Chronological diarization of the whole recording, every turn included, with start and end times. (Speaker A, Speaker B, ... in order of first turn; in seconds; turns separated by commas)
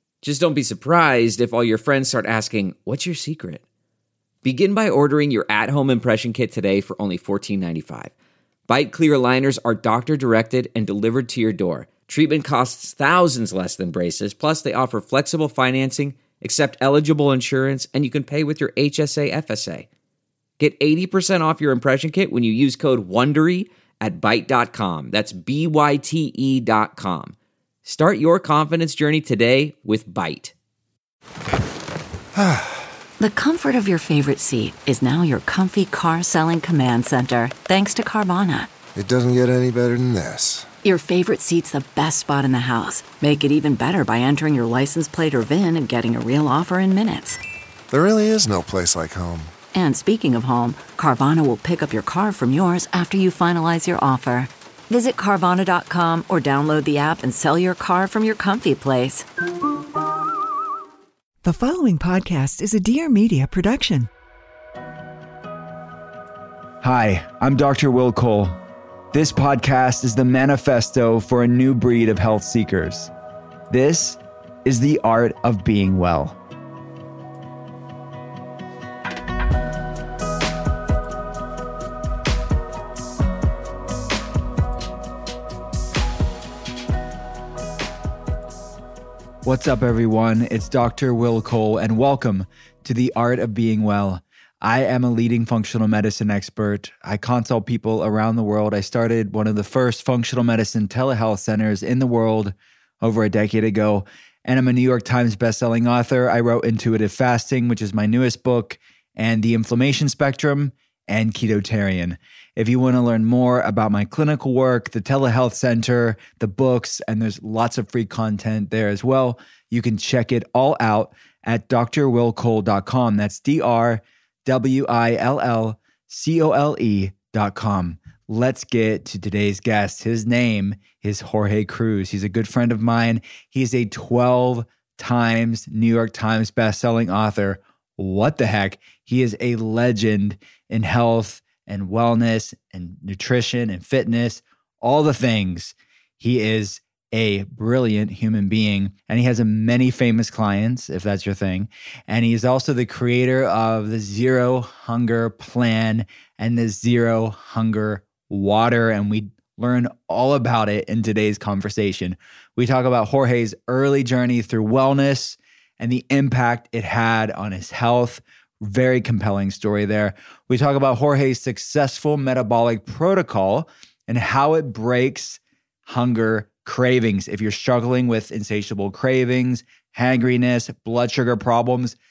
Speaker A: 0.2-3.6, Speaker A: 4.4-8.1, Speaker A: 8.7-19.9, Speaker A: 20.6-30.5, Speaker B: 32.4-32.8, Speaker C: 33.2-38.7, Speaker B: 38.9-40.7, Speaker C: 40.8-47.4, Speaker B: 47.9-49.5, Speaker C: 49.7-59.2, Speaker D: 61.4-64.1, Speaker E: 66.8-68.6, Speaker E: 69.1-73.1, Speaker E: 73.7-76.4, Speaker E: 89.4-182.0